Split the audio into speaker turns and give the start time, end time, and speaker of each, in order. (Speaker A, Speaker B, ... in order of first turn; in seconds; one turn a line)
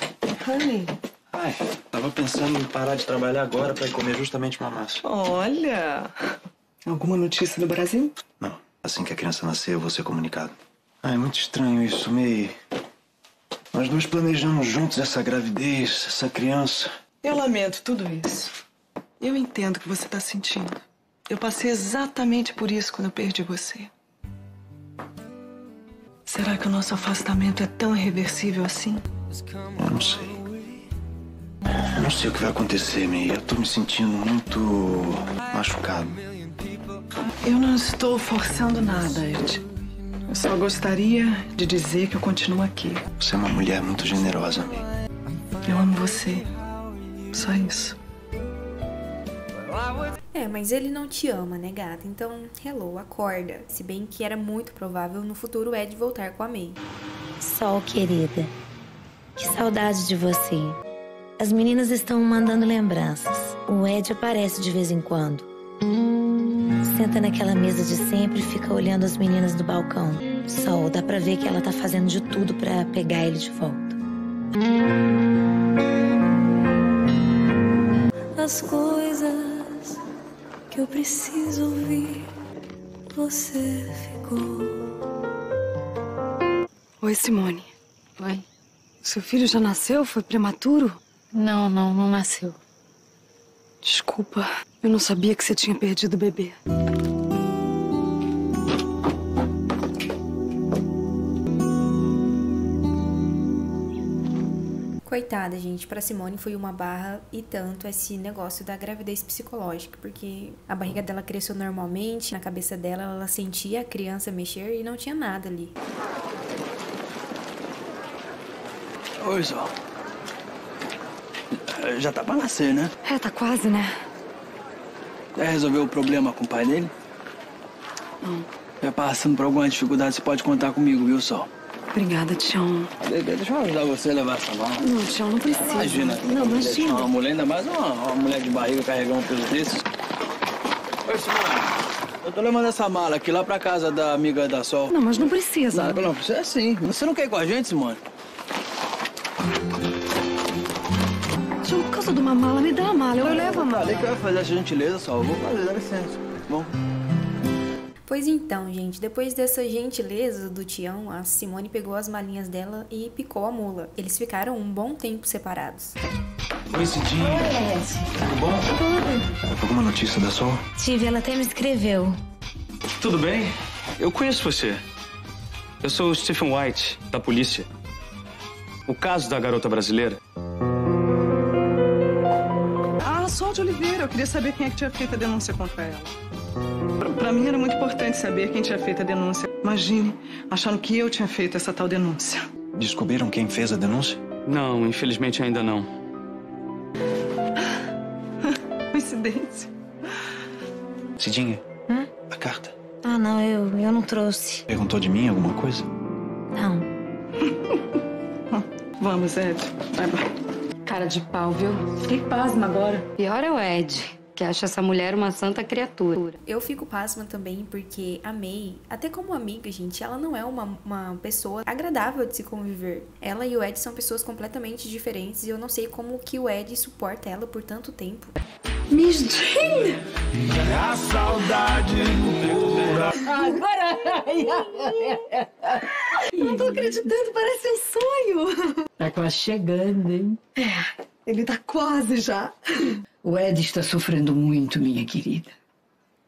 Speaker A: 0.4-0.9
Speaker B: 1.3-5.0
Speaker A: 5.0-8.1
Speaker B: 8.4-12.6
Speaker B: 13.7-16.9
Speaker A: 17.2-18.5
Speaker A: 19.2-23.9
Speaker A: 26.2-29.0
Speaker B: 29.7-30.4
Speaker B: 31.7-36.2
Speaker A: 37.4-39.6
Speaker A: 40.3-43.0
Speaker B: 43.2-44.9
Speaker A: 45.6-46.5
Speaker A: 47.3-48.0
Speaker C: 50.3-56.8
Speaker D: 57.4-58.5
Speaker D: 59.4-60.8
Speaker D: 61.4-65.5
Speaker D: 66.8-74.0
Speaker E: 78.3-80.0
Speaker E: 80.7-82.3
Speaker E: 83.1-84.9
Speaker F: 87.0-87.7
Speaker G: 88.2-88.4
Speaker F: 89.0-91.0
Speaker G: 91.3-92.6
Speaker F: 93.8-96.6
Speaker C: 105.0-115.7
Speaker H: 119.2-119.7
Speaker H: 121.5-122.9
Speaker F: 123.0-123.9
Speaker H: 125.3-126.9
Speaker H: 128.8-131.5
Speaker F: 131.9-132.9
Speaker H: 133.0-134.9
Speaker F: 134.8-137.1
Speaker H: 135.5-139.8
Speaker H: 141.1-141.7
Speaker H: 142.2-144.9
Speaker F: 144.9-146.1
Speaker H: 145.7-148.0
Speaker F: 151.6-153.8
Speaker H: 153.2-156.7
Speaker C: 158.1-165.9
Speaker B: 169.6-170.6
Speaker D: 170.8-172.2
Speaker I: 173.0-173.5
Speaker I: 174.0-174.8
Speaker I: 175.8-177.6
Speaker I: 178.9-180.2
Speaker A: 183.0-186.1
Speaker A: 187.0-192.5
Speaker B: 192.8-194.2
Speaker I: 194.4-195.9
Speaker A: 198.4-199.7
Speaker B: 201.2-201.6
Speaker B: 202.3-202.7
Speaker D: 203.0-204.6
Speaker B: 204.7-205.9
Speaker D: 206.5-206.9
Speaker A: 208.5-210.2
Speaker G: 210.8-212.1
Speaker F: 212.3-212.9
Speaker G: 213.0-216.4
Speaker C: 216.4-228.3
Speaker F: 228.9-230.0
Speaker J: 233.1-235.4
Speaker F: 236.3-238.8
Speaker J: 236.4-237.1
Speaker J: 239.0-240.4
Speaker F: 240.6-242.9
Speaker J: 243.2-245.5